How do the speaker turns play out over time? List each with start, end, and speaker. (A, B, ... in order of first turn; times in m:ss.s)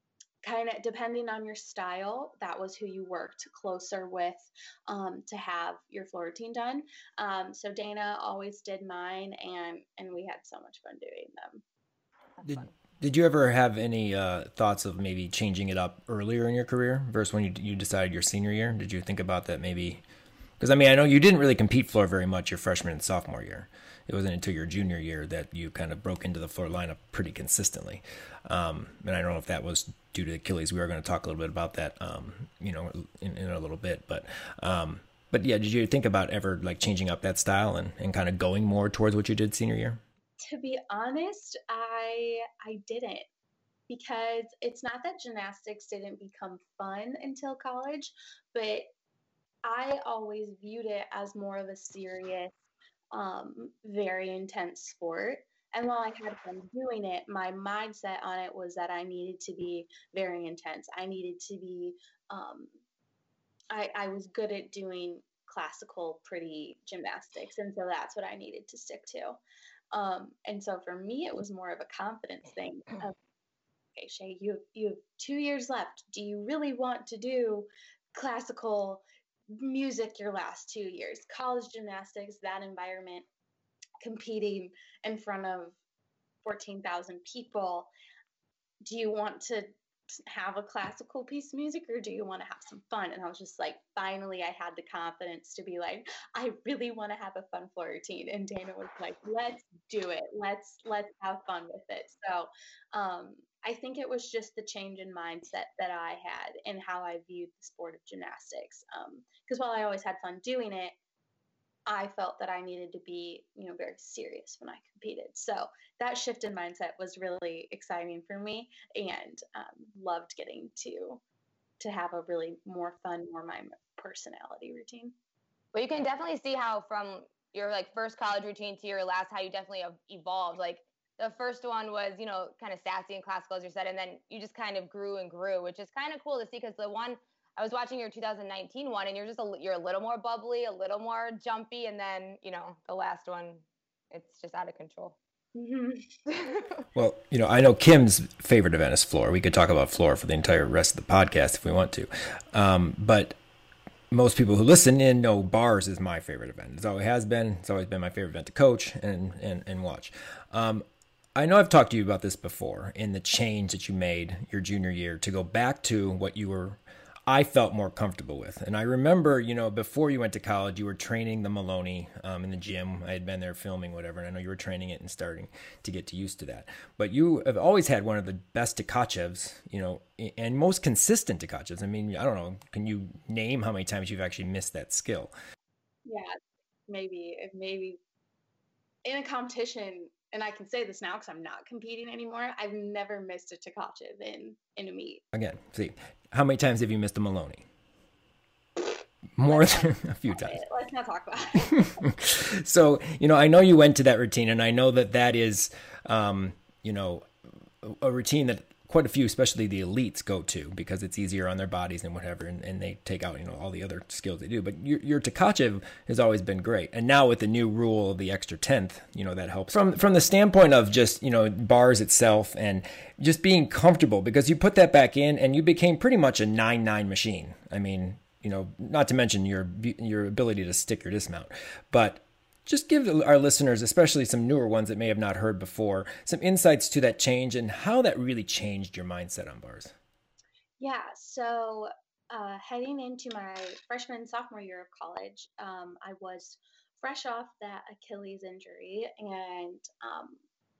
0:00.4-0:11.6 A
0:12.4-0:12.7 B
0:12.4-0:20.0 C
0:20.6-0:40.0 C
0:40.4-0:43.3 A
0:43.9-0:48.9 A
0:49.6-0:52.6 A
0:53.1-1:02.7 A
1:03.7-1:09.4 A
1:09.9-1:13.2 A
1:14.0-1:23.2 A
1:24.0-1:25.8 A
1:26.4-1:27.9 A
1:28.8-1:29.7 A
1:30.3-1:51.0 A
1:51.9-2:01.2 A
2:01.8-2:05.1 A
2:05.7-2:25.2 B
2:25.6-2:26.1 A
2:26.4-2:26.6 B
2:27.0-2:33.4 C
2:34.1-3:05.3 C
3:06.1-3:08.0 A
3:09.0-3:15.2 A
3:15.3-3:17.6 C
3:19.4-3:20.6 C
3:19.5-3:22.0 A
3:21.8-3:27.3 C
3:27.8-3:59.9 C
4:00.8-4:10.4 A